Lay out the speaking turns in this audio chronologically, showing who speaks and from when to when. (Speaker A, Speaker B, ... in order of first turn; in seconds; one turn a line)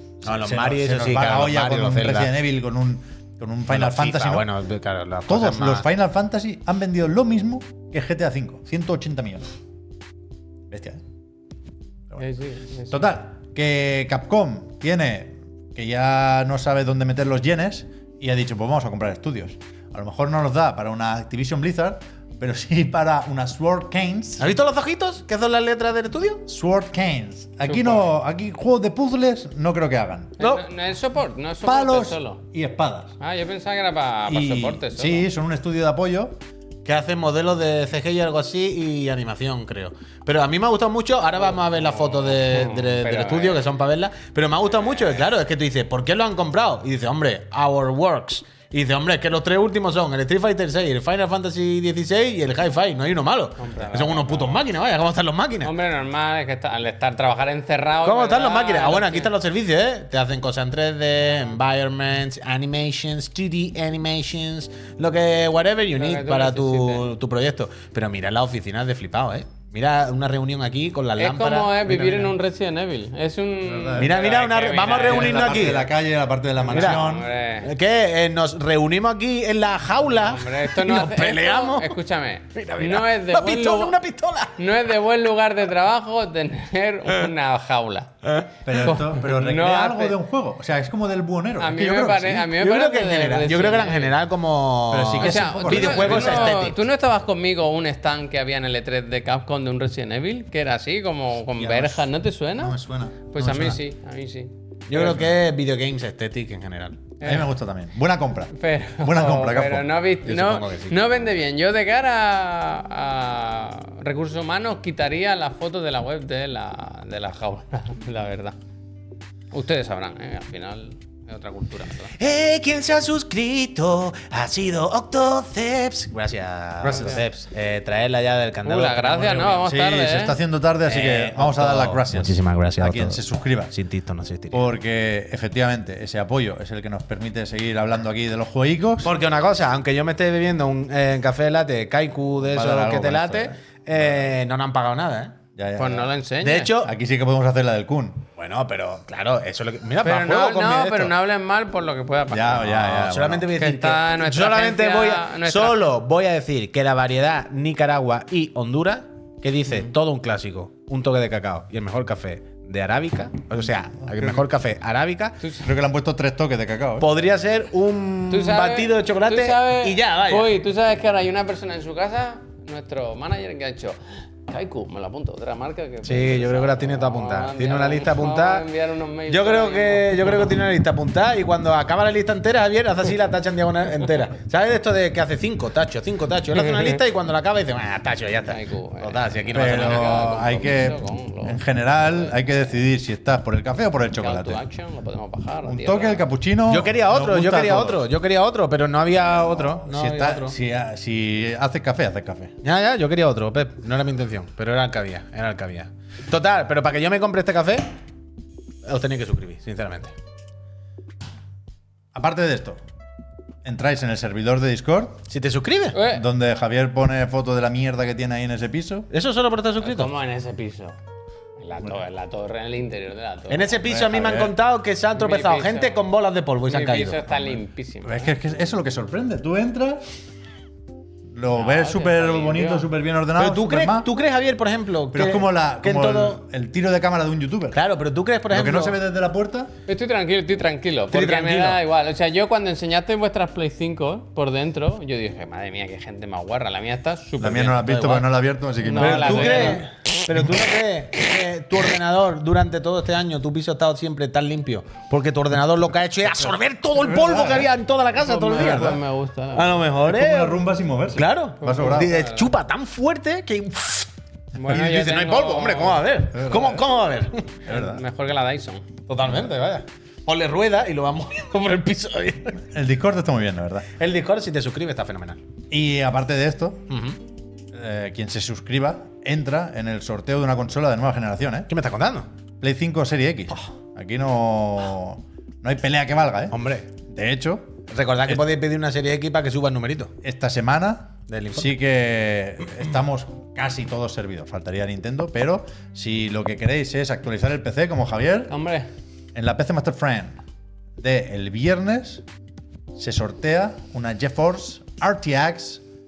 Speaker A: 0.2-4.5
Speaker B: 0.2-2.3
Speaker B: 3.7-5.9
Speaker A: 5.3-9.5
Speaker A: 10.7-11.0
Speaker C: 12.2-13.0
Speaker A: 12.9-24.5
Speaker B: 24.4-26.4
Speaker A: 26.5-30.4
Speaker C: 27.6-28.1
Speaker C: 30.4-32.4
Speaker A: 31.6-33.1
Speaker C: 33.2-35.3
Speaker A: 34.2-36.4
Speaker B: 36.8-55.7
Speaker C: 41.4-43.6
Speaker C: 53.6-54.6
Speaker C: 55.6-59.3
Speaker B: 58.0-72.3
Speaker C: 66.0-67.0
Speaker C: 71.2-75.8
Speaker A: 73.6-74.3
Speaker B: 74.0-75.9
Speaker A: 74.8-77.3
Speaker C: 76.6-77.7
Speaker B: 76.7-77.0
Speaker B: 77.6-81.9
Speaker C: 80.1-84.0
Speaker B: 82.5-84.6
Speaker C: 84.6-90.2
Speaker A: 88.6-92.5
Speaker C: 91.6-94.2
Speaker B: 92.6-96.8
Speaker A: 94.9-96.6
Speaker C: 95.2-102.8
Speaker A: 101.5-103.8
Speaker C: 103.3-104.5
Speaker B: 104.9-107.0
Speaker A: 105.0-105.2
Speaker C: 107.2-107.5
Speaker A: 107.2-110.0
Speaker C: 108.5-118.5
Speaker B: 110.2-111.0
Speaker C: 119.5-122.1
Speaker B: 122.1-129.7
Speaker C: 126.9-127.2
Speaker C: 128.6-130.4
Speaker A: 129.6-133.7
Speaker B: 130.9-134.7
Speaker A: 134.5-139.1
Speaker B: 139.0-145.4
Speaker A: 142.4-143.6
Speaker A: 145.6-146.1
Speaker C: 145.8-146.7
Speaker B: 146.4-146.9
Speaker A: 146.8-148.2
Speaker B: 148.4-151.1
Speaker C: 150.0-152.9
Speaker A: 152.3-153.5
Speaker B: 152.7-165.4
Speaker C: 153.6-155.8
Speaker A: 164.0-164.4
Speaker A: 165.6-167.1
Speaker B: 167.0-170.5
Speaker C: 168.3-180.3
Speaker B: 176.0-178.7
Speaker B: 179.3-190.4
Speaker C: 186.6-187.0
Speaker C: 188.5-192.4
Speaker A: 189.5-194.6
Speaker C: 194.2-196.2
Speaker A: 195.6-198.0
Speaker B: 196.7-200.6
Speaker A: 199.2-202.5
Speaker B: 202.6-207.9
Speaker B: 208.8-210.1
Speaker A: 212.1-212.8
Speaker A: 213.6-215.2
Speaker B: 215.3-216.0
Speaker C: 215.9-216.2
Speaker A: 216.0-219.1
Speaker B: 219.1-220.1
Speaker C: 219.8-221.0
Speaker C: 221.6-223.8
Speaker B: 223.5-227.5
Speaker A: 223.8-224.5
Speaker C: 225.1-226.0
Speaker C: 226.7-228.3
Speaker A: 228.0-230.0
Speaker A: 231.3-234.1
Speaker C: 231.5-232.9
Speaker B: 233.4-236.4
Speaker A: 235.1-237.8
Speaker B: 237.7-239.0
Speaker A: 238.5-239.7
Speaker C: 239.9-248.3
Speaker B: 241.1-241.8
Speaker A: 247.4-250.5
Speaker C: 248.8-249.8
Speaker B: 249.0-259.0
Speaker A: 256.4-257.7
Speaker C: 258.2-259.8
Speaker A: 258.5-259.0
Speaker B: 259.5-264.1
Speaker A: 260.0-262.1
Speaker C: 261.6-262.5
Speaker C: 264.5-266.1
Speaker B: 264.6-267.6
Speaker A: 266.3-266.8
Speaker A: 267.7-268.0
Speaker C: 267.7-268.9
Speaker B: 269.1-272.6
Speaker A: 272.6-273.9
Speaker B: 273.9-275.4
Speaker A: 275.7-276.9
Speaker B: 276.9-277.2
Speaker A: 277.7-281.7
Speaker B: 281.7-282.3
Speaker A: 282.6-288.5
Speaker B: 286.5-286.9
Speaker B: 287.9-290.1
Speaker A: 290.2-298.5
Speaker B: 291.3-291.7
Speaker C: 298.5-298.9
Speaker A: 299.3-300.4
Speaker A: 301.0-302.2
Speaker A: 302.9-305.8